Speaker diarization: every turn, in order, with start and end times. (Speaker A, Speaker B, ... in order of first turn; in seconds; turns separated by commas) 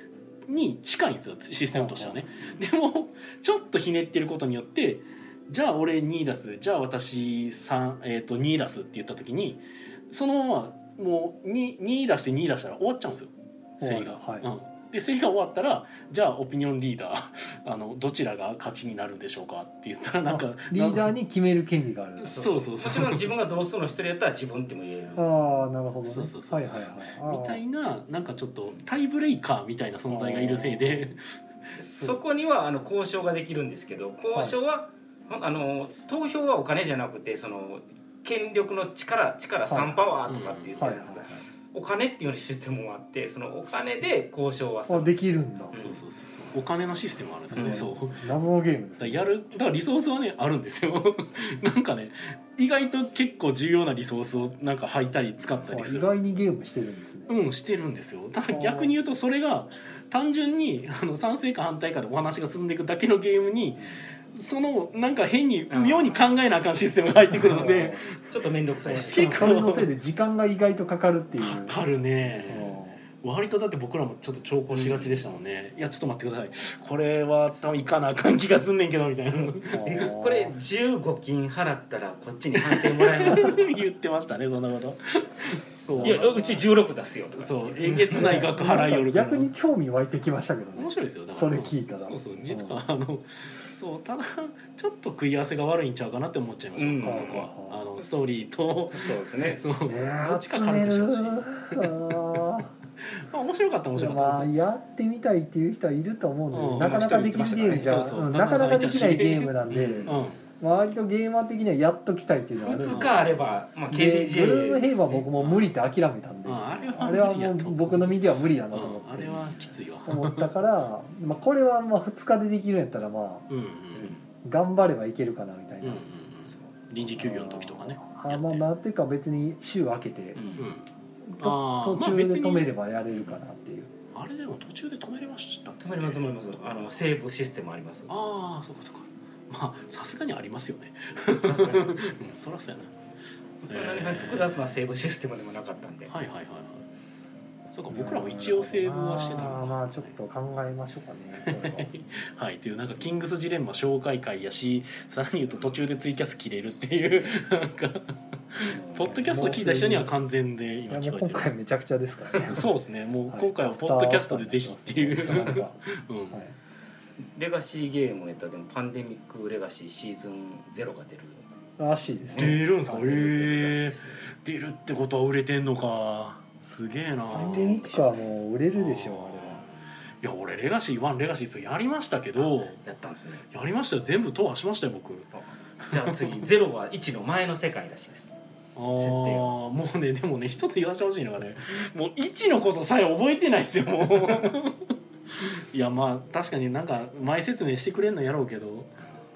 Speaker A: 0.5-21.1, Speaker B: 1.7-2.2, Speaker B: 13.8-14.5, Speaker B: 20.2-22.4, Speaker A: 22.2-23.3, Speaker C: 22.3-25.6, Speaker B: 25.1-27.6, Speaker A: 26.1-31.4, Speaker B: 30.1-31.0, Speaker C: 31.8-46.0, Speaker B: 39.7-40.0, Speaker A: 40.3-40.8, Speaker B: 40.8-41.4, Speaker B: 44.9-45.8, Speaker A: 45.8-48.2, Speaker B: 47.5-49.2, Speaker C: 47.5-47.9, Speaker A: 49.0-56.4, Speaker B: 55.7-57.4, Speaker A: 57.3-68.2, Speaker B: 58.5-58.9, Speaker C: 65.7-66.3, Speaker B: 67.4-68.0, Speaker C: 68.3-69.5, Speaker B: 68.9-71.8, Speaker A: 68.9-69.9, Speaker A: 71.4-80.1, Speaker B: 72.5-73.0, Speaker C: 74.7-75.3, Speaker B: 79.7-80.6, Speaker C: 79.8-83.8, Speaker A: 82.6-86.6, Speaker B: 85.9-86.4, Speaker C: 86.0-88.5, Speaker A: 87.4-89.5, Speaker B: 88.1-92.8, Speaker A: 90.8-102.2, Speaker C: 96.8-97.5, Speaker B: 97.0-97.8, Speaker C: 98.9-99.6, Speaker B: 99.8-102.7, Speaker A: 103.0-104.5, Speaker B: 103.9-113.2, Speaker A: 106.5-110.4, Speaker C: 106.8-108.0, Speaker C: 109.7-110.3, Speaker C: 112.6-115.3, Speaker A: 112.9-113.4, Speaker B: 113.9-123.5, Speaker A: 115.4-115.7, Speaker A: 116.4-120.5, Speaker C: 116.8-117.2, Speaker A: 123.5-124.2, Speaker C: 123.9-124.2, Speaker B: 124.4-126.0, Speaker A: 125.8-128.7, Speaker B: 127.2-130.4, Speaker C: 130.3-130.7, Speaker A: 130.6-130.9, Speaker B: 131.2-133.9, Speaker A: 131.4-132.7, Speaker A: 134.1-136.3, Speaker C: 135.8-138.1, Speaker A: 138.1-142.9, Speaker C: 141.3-142.1, Speaker C: 143.7-146.1, Speaker A: 143.7-144.5, Speaker A: 146.1-146.8, Speaker A: 147.7-150.1, Speaker B: 147.9-151.9, Speaker A: 151.4-161.5, Speaker C: 158.7-159.2, Speaker B: 159.0-160.1, Speaker B: 160.9-162.7, Speaker A: 162.3-166.4, Speaker B: 163.3-165.8, Speaker C: 167.3-171.4, Speaker B: 171.8-173.1, Speaker C: 172.1-174.2, Speaker A: 172.4-177.8, Speaker C: 177.3-178.2, Speaker B: 177.3-179.6, Speaker A: 178.7-179.5, Speaker C: 179.4-179.7, Speaker A: 180.2-182.8, Speaker C: 182.4-183.5, Speaker A: 183.5-186.4, Speaker C: 185.9-188.3, Speaker A: 188.8-198.9, Speaker C: 189.0-189.5